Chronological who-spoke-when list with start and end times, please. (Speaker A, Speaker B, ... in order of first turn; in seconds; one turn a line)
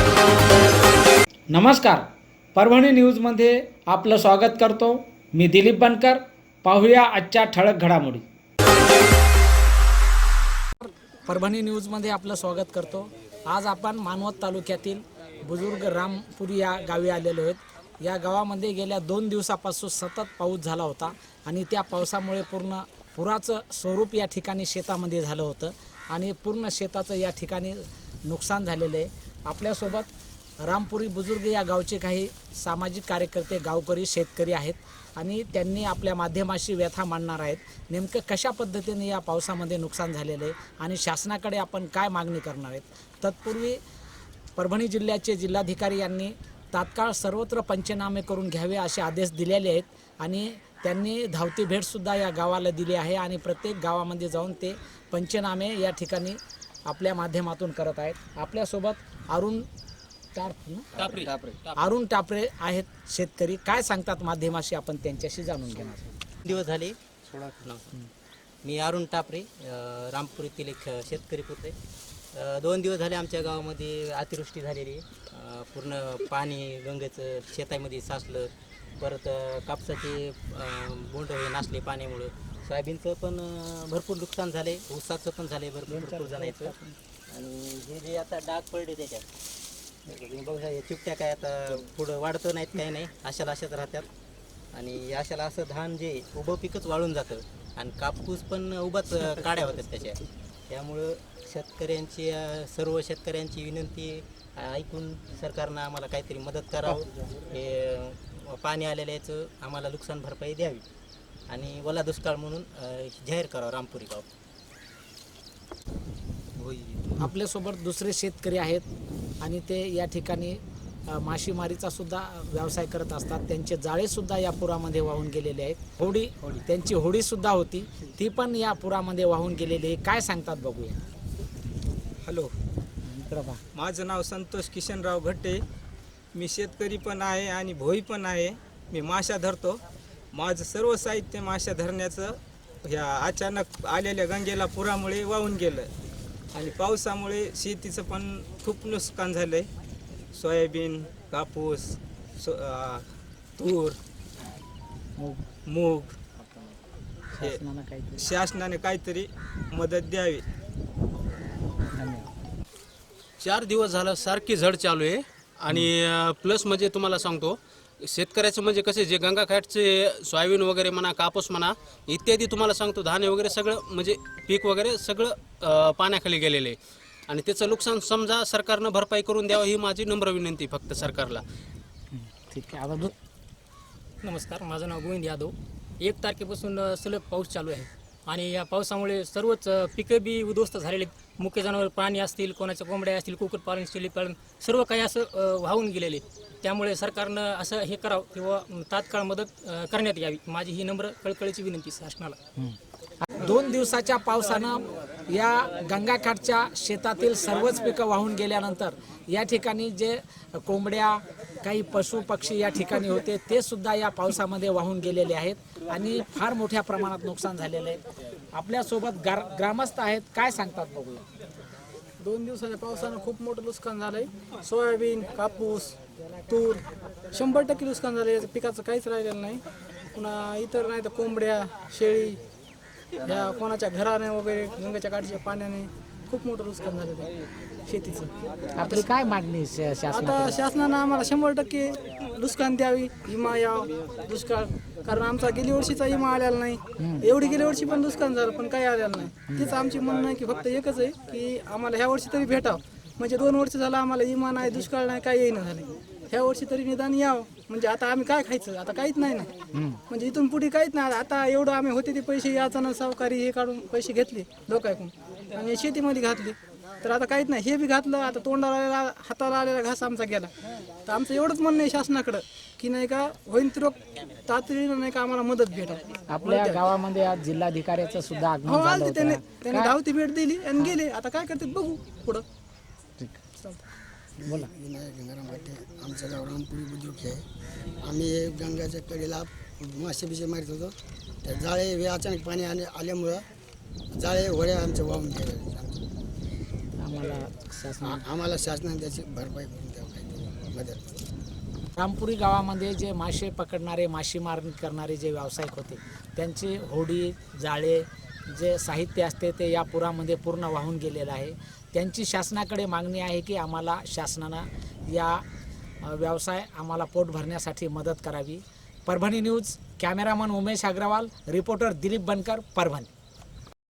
Speaker A: 1.5-2.0
Speaker A: 2.5-8.2
Speaker A: 10.8-30.1
Speaker A: 30.6-43.8
Speaker A: 44.5-59.6
Speaker A: 60.3-61.1
Speaker A: 61.8-66.1
Speaker B: 66.4-67.0
Speaker B: 67.5-67.9
Speaker B: 68.6-71.7
Speaker B: 72.3-86.7
Speaker A: 85.9-87.0
Speaker B: 87.3-89.3
Speaker B: 90.0-94.1
Speaker B: 94.7-110.8
Speaker B: 111.5-114.2
Speaker B: 116.6-117.2
Speaker A: 117.2-118.8
Speaker A: 119.4-131.0
Speaker C: 132.2-132.5
Speaker A: 133.1-133.6
Speaker C: 133.7-135.6
Speaker C: 136.3-139.8
Speaker C: 140.3-145.9
Speaker C: 146.5-149.7
Speaker C: 150.3-153.0
Speaker C: 153.6-154.0
Speaker C: 155.7-156.2
Speaker A: 157.3-158.2
Speaker C: 158.2-160.4
Speaker A: 161.9-162.3
Speaker D: 163.4-176.8
Speaker D: 177.3-181.4
Speaker A: 182.1-183.1
Speaker E: 184.2-202.4
Speaker A: 202.6-218.0
Speaker A: 218.5-221.2
Speaker F: 222.2-225.9
Speaker F: 226.5-226.8
Speaker F: 227.3-229.6
Speaker F: 230.1-232.4
Speaker F: 233.2-237.3
Speaker F: 237.9-238.3
Speaker A: 238.8-240.5
Speaker F: 240.1-259.5
Speaker F: 260.1-270.5
Speaker F: 271.1-276.8
Speaker A: 276.3-279.9
Speaker F: 278.6-282.4
Speaker G: 284.4-287.4
Speaker A: 284.4-284.7
Speaker G: 288.0-293.4
Speaker G: 294.1-296.1
Speaker A: 297.0-298.2
Speaker G: 298.0-301.0
Speaker A: 302.0-315.4
Speaker A: 316.0-323.1